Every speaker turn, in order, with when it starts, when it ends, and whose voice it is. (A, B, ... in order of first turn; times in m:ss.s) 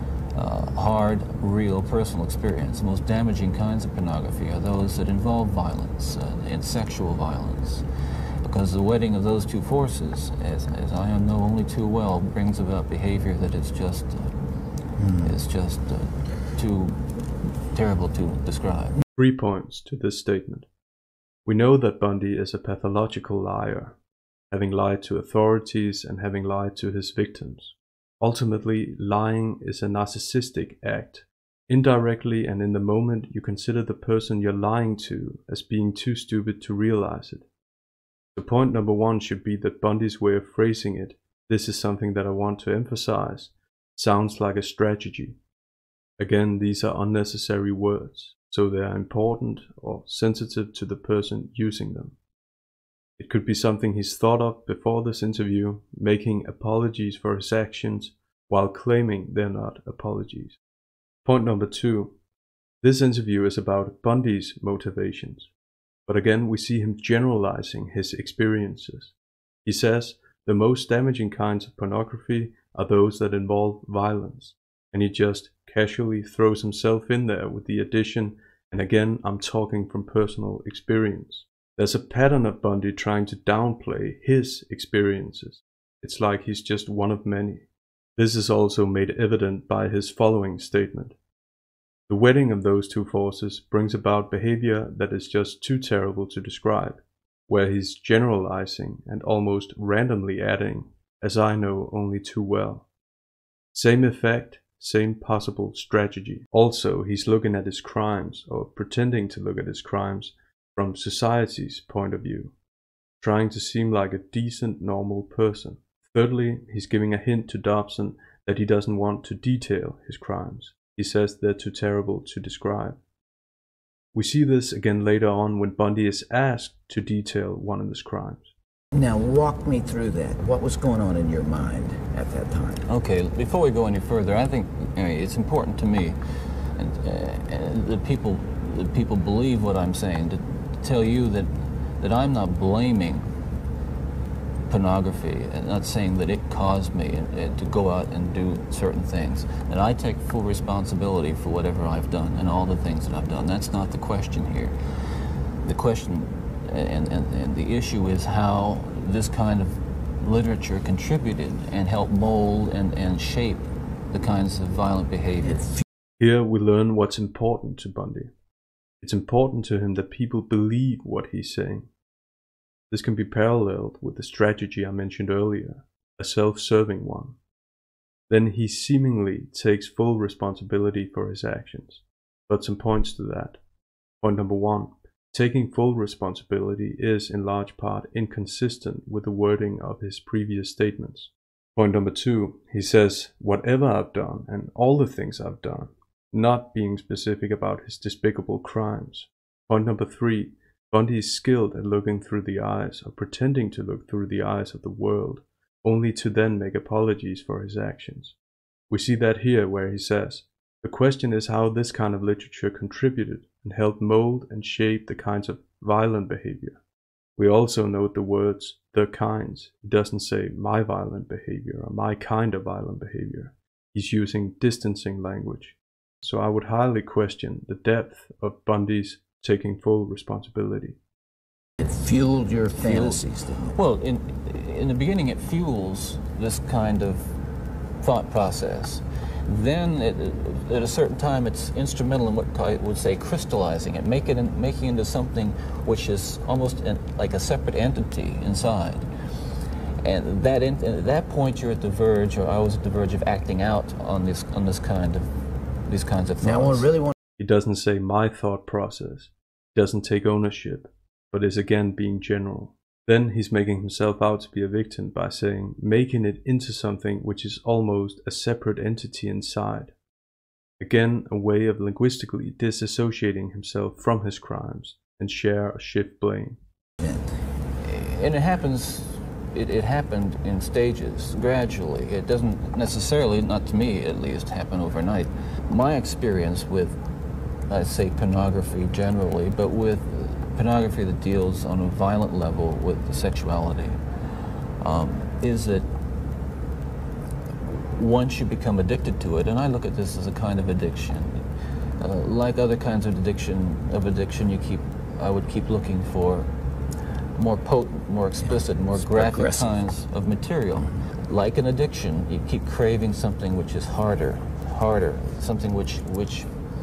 0:00.3-0:07.8 A
0:08.4-0:19.0 A
0:15.0-0:15.3 B
0:19.2-0:20.7 C
0:21.4-0:24.0 C
0:24.5-0:37.5 C
0:38.4-0:45.4 C
0:46.2-0:52.2 C
0:53.2-1:00.6 C
1:01.2-1:02.1 C
1:02.8-1:05.5 C
1:06.1-1:27.6 C
1:28.2-1:31.2 C
1:32.1-1:42.8 C
1:43.7-1:52.5 C
1:53.2-2:03.0 C
2:04.1-2:08.5 C
2:08.9-2:12.8 B
2:12.9-2:23.3 A
2:24.7-2:45.8 A
2:46.2-2:48.3 C
2:49.0-2:51.9 C
2:52.9-2:57.4 C
2:58.3-3:03.6 C
3:04.2-3:28.4 C
3:28.9-3:36.8 C
3:37.4-3:51.0 C
3:51.8-3:53.8 B
3:52.8-3:57.4 A
3:58.0-4:16.9 A
4:16.4-4:17.1 B
4:17.4-4:29.9 C
4:30.8-4:36.6 C
4:37.8-4:47.0 A
4:47.7-4:54.0 A
4:54.8-4:55.9 A
4:57.6-5:01.5 A
5:02.0-5:06.5 A
5:07.3-5:16.5 A
5:08.4-5:09.7 B